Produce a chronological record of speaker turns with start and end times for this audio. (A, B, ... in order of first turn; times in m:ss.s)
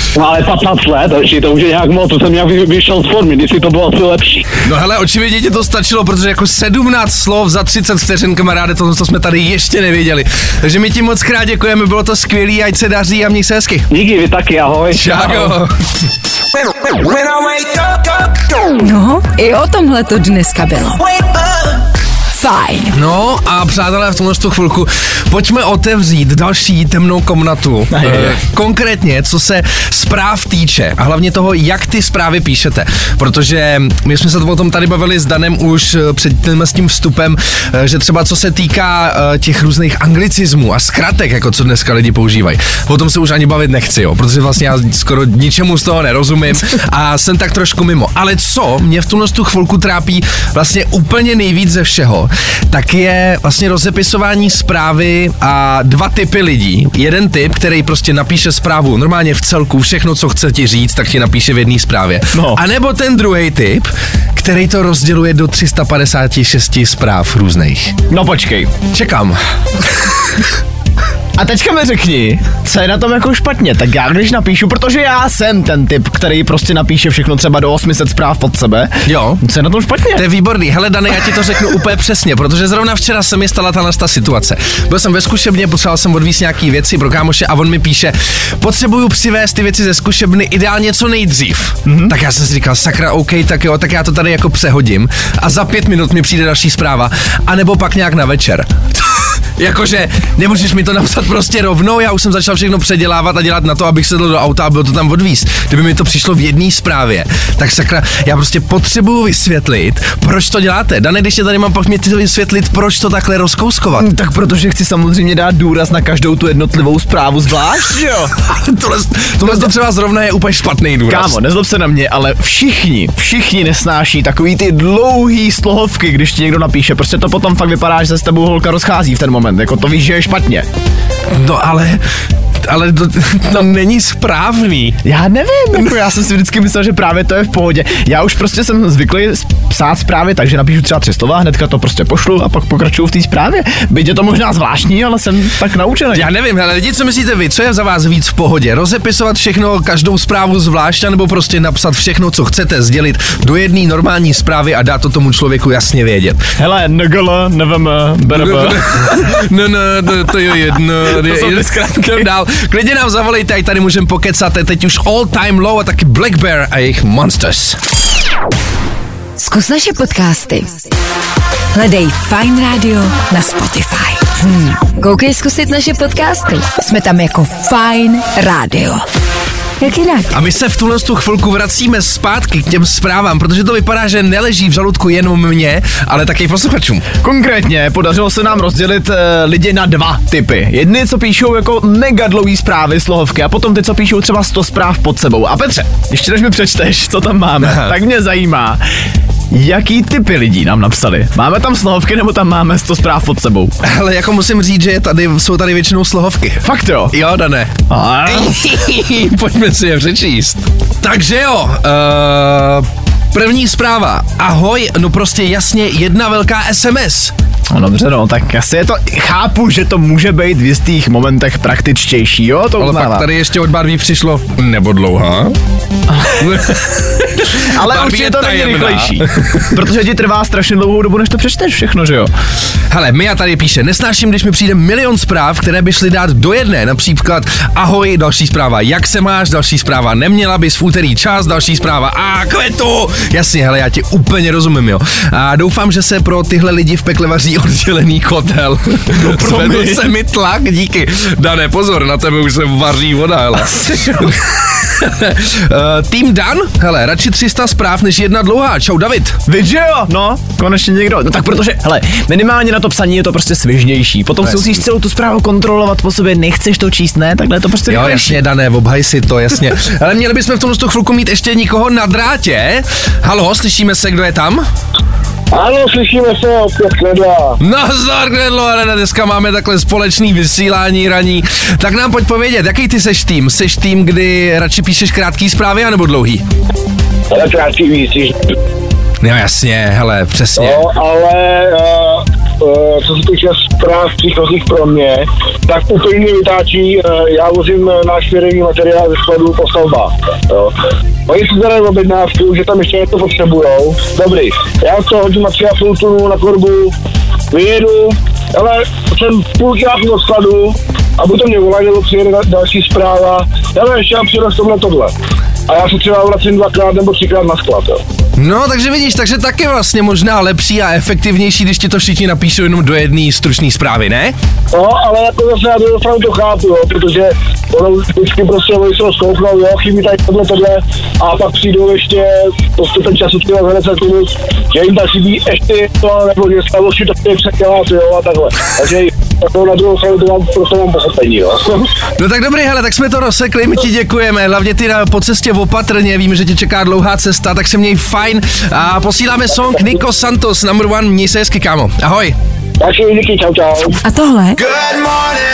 0:00.2-0:04.5 A
0:04.6-0:13.9 B
0:13.9-0:15.5 A
0:14.9-0:15.7 B
0:18.8-0:21.1 C
0:22.3-0:22.9 C
0:22.9-1:07.9 B
0:27.9-0:28.4 D
1:02.3-1:02.6 D
1:08.1-1:08.8 D
1:08.9-1:10.1 B
1:11.4-1:20.2 D
1:19.0-1:19.4 B
1:20.1-1:54.1 B
1:31.8-1:32.1 D
1:54.0-1:58.3 D
1:58.5-2:01.3 B
1:59.4-1:59.7 D
2:01.1-2:10.7 D
2:11.3-2:12.0 B
2:12.6-2:15.0 B
2:15.0-2:26.3 D
2:26.1-2:36.4 B
2:36.6-2:39.3 D
2:38.3-2:47.8 B
2:41.0-2:42.3 D
2:49.4-2:50.8 C
2:51.7-2:59.0 C
2:59.8-3:00.3 C
3:00.3-3:07.0 B
3:07.2-3:18.8 D
3:17.6-3:17.9 B
3:19.5-3:23.7 D
3:23.8-3:27.7 B
3:26.6-3:27.1 D
3:27.9-3:28.7 D
3:28.3-3:37.3 B
3:37.7-3:43.3 D
3:42.8-3:45.5 B
3:46.1-3:46.6 D
3:46.4-3:49.7 B
3:47.5-3:52.3 D
3:52.9-4:19.4 B
4:09.1-4:10.1 D
4:13.8-4:14.3 D
4:19.5-4:28.4 D
4:24.4-4:24.8 B
4:27.9-4:34.6 B
4:35.5-4:37.6 E
4:37.6-4:46.4 B
4:47.3-4:48.6 E
4:49.2-4:50.8 B
4:50.6-5:06.9 E
5:07.5-5:15.1 E
5:15.7-5:18.0 E
5:18.4-5:24.4 B
5:24.7-5:41.9 E
5:42.2-5:52.3 B
5:52.8-5:54.0 E
5:54.0-5:54.7 C
5:54.9-5:55.3 E